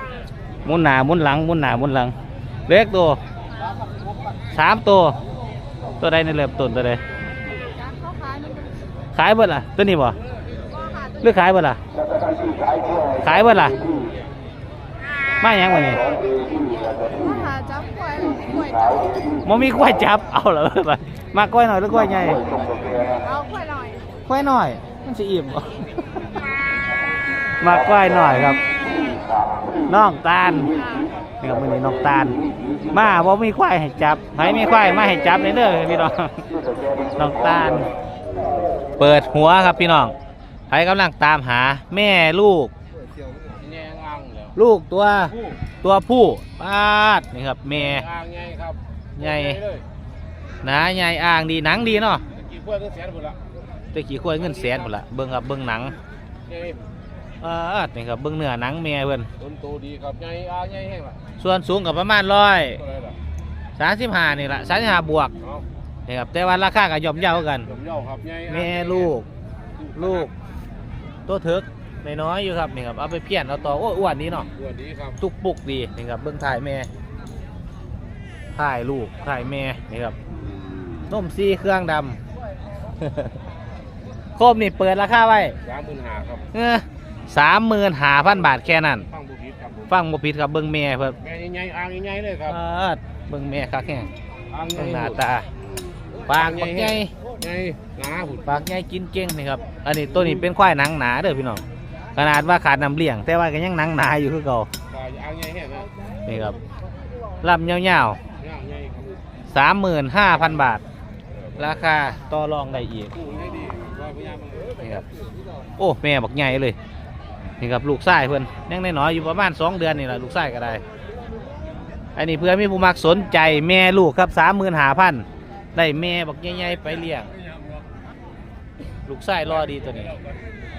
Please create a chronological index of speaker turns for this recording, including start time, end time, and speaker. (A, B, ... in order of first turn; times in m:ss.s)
0:00.6-0:02.1 A
0:02.7-0:03.2 A
0:04.5-0:05.2 A
0:06.0-0:07.0 A
0:07.6-0:08.9 B
0:09.1-0:10.2 A
0:10.7-0:11.4 B
0:11.2-0:11.8 A
0:13.2-0:13.8 A
0:15.4-0:16.0 A
0:17.1-0:19.2 B
0:19.4-0:22.4 A
0:23.2-0:24.0 B
0:24.2-0:25.9 A
0:27.6-0:28.6 A
0:29.9-0:30.7 A
0:30.7-0:31.1 B
0:31.4-0:32.4 A
0:32.9-0:36.4 A
0:37.2-0:37.9 A
0:39.0-0:40.1 A
0:40.7-0:42.7 A
0:43.6-0:44.6 C
0:44.6-0:48.0 A
0:45.3-0:45.6 C
0:47.7-0:49.8 C
0:49.2-0:49.6 A
0:50.6-0:52.2 A
0:52.3-0:53.4 C
0:53.9-0:55.9 A
0:54.3-0:54.9 C
0:56.5-0:56.8 C
0:57.4-0:59.3 A
0:59.4-1:01.2 C
1:01.4-1:02.8 A
1:02.8-1:03.2 C
1:03.8-1:05.3 A
1:06.1-1:07.7 A
1:07.6-1:09.1 C
1:08.5-1:09.2 A
1:09.8-1:10.3 C
1:09.9-1:10.3 A
1:11.3-1:14.5 A
1:14.5-1:15.2 C
1:15.2-1:16.9 A
1:18.6-1:20.1 A
1:21.1-1:22.2 A
1:24.4-1:25.6 A
1:25.6-1:26.4 C
1:26.5-1:29.0 A
1:29.1-1:29.9 C
1:29.9-1:31.1 A
1:31.2-1:32.6 C
1:32.5-1:34.1 A
1:34.5-1:35.2 C
1:34.7-1:35.4 A
1:36.2-1:38.6 C
1:36.3-1:37.1 A
1:38.4-1:41.6 A
1:42.2-1:44.7 A
1:44.9-1:45.9 C
1:46.2-1:46.6 A
1:47.4-1:48.2 A
1:48.4-1:49.2 C
1:49.5-1:50.8 A
1:51.6-1:53.1 A
1:53.1-1:54.8 C
1:55.8-1:56.8 A
1:57.6-2:00.8 A
2:02.2-2:07.3 A
2:07.3-2:07.8 C
2:09.1-2:10.1 A
2:09.5-2:10.4 C